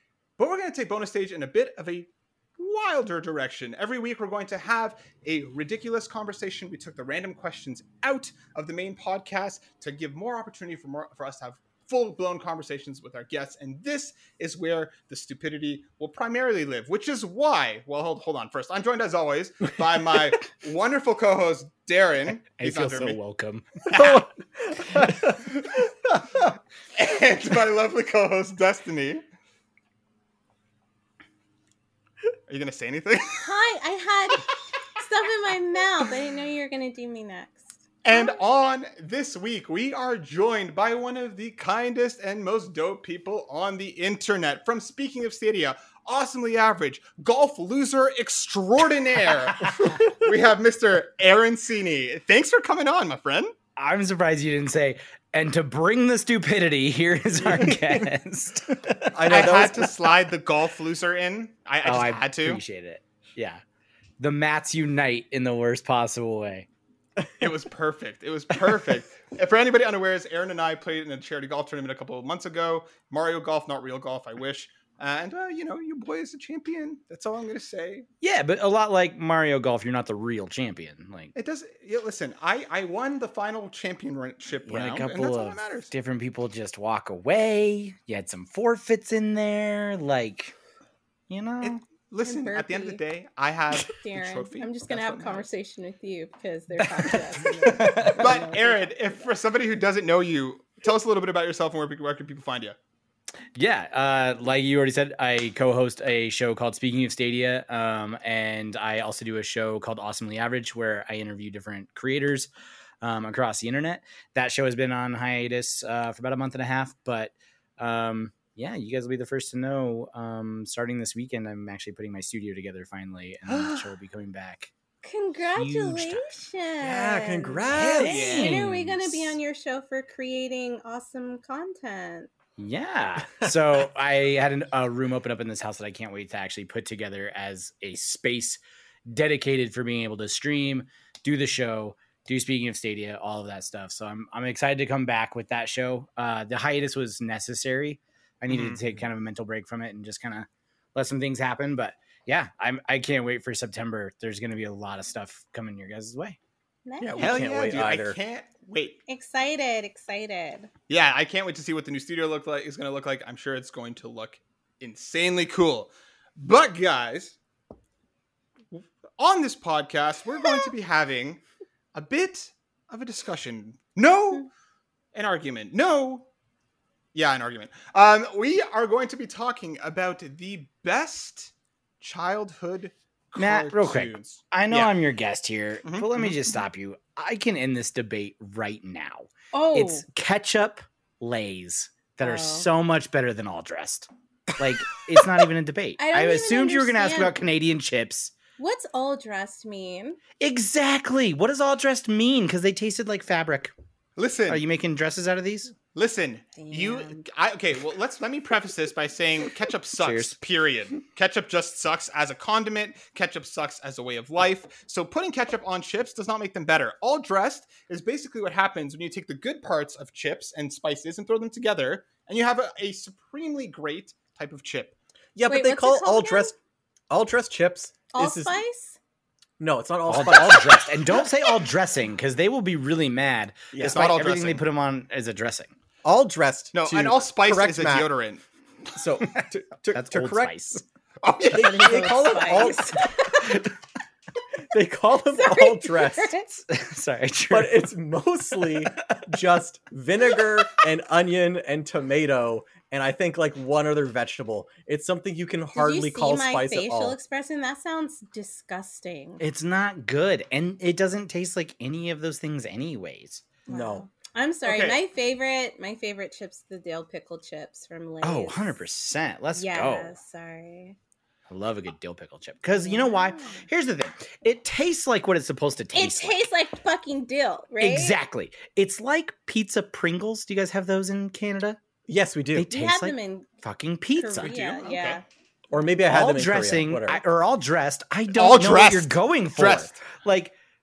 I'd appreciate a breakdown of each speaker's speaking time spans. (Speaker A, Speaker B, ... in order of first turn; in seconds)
Speaker A: 0.4-23.2, 23.9-24.2, 25.5-25.9, 26.5-29.2, 32.5-33.5, 38.0-53.5, 59.3-62.6, 67.4-78.1, 81.3-85.9, 91.6-95.5, 98.1-102.8, 123.5-123.8, 127.7-128.6, 148.5-148.8, 157.2-159.0, 160.9-167.4, 168.7-171.4, 171.9-174.5, 175.1-176.3, 177.1-184.9, 185.8-186.4, 204.2-204.6, 205.9-225.0, 233.8-234.6, 236.7-238.4, 241.2-242.0, 264.6-265.0, 288.3-289.9
Speaker B: 22.6-23.7, 53.8-59.0, 61.8-63.6, 64.2-66.7, 78.2-81.3, 84.7-90.5, 91.3-91.8, 96.8-98.4, 103.5-112.5, 113.0-124.7, 125.6-126.2, 127.7-129.4, 132.6-156.4, 183.4-198.3, 200.4-203.7, 204.5-205.7, 210.0-210.4, 230.1-235.7, 239.3-240.8, 246.6-247.9, 248.7-249.3, 259.4-263.4, 268.2-270.1, 271.5-276.4, 277.8-281.8, 282.6-285.2, 286.1-290.6
Speaker C: 23.9-25.4, 57.4-58.0, 59.0-59.9, 126.8-128.1, 157.0-158.2, 225.4-226.6, 227.1-228.6, 229.6-231.0, 233.7-234.0, 236.0-238.1, 238.9-240.8, 241.4-243.6, 244.7-246.3, 247.5-257.2, 263.7-264.1, 282.1-282.7, 285.7-287.2
Speaker D: 33.4-38.4, 92.2-93.0, 94.0-99.3, 125.0-132.3, 156.9-157.6, 159.1-160.7, 189.5-190.1, 192.2-192.7, 196.0-197.4, 198.6-200.2, 206.6-207.2, 225.5-226.5, 228.1-229.0, 241.4-243.6, 245.3-246.5, 255.7-259.4, 263.7-268.8, 269.6-271.0, 272.7-273.6, 275.9-278.2, 282.7-283.5, 284.2-285.2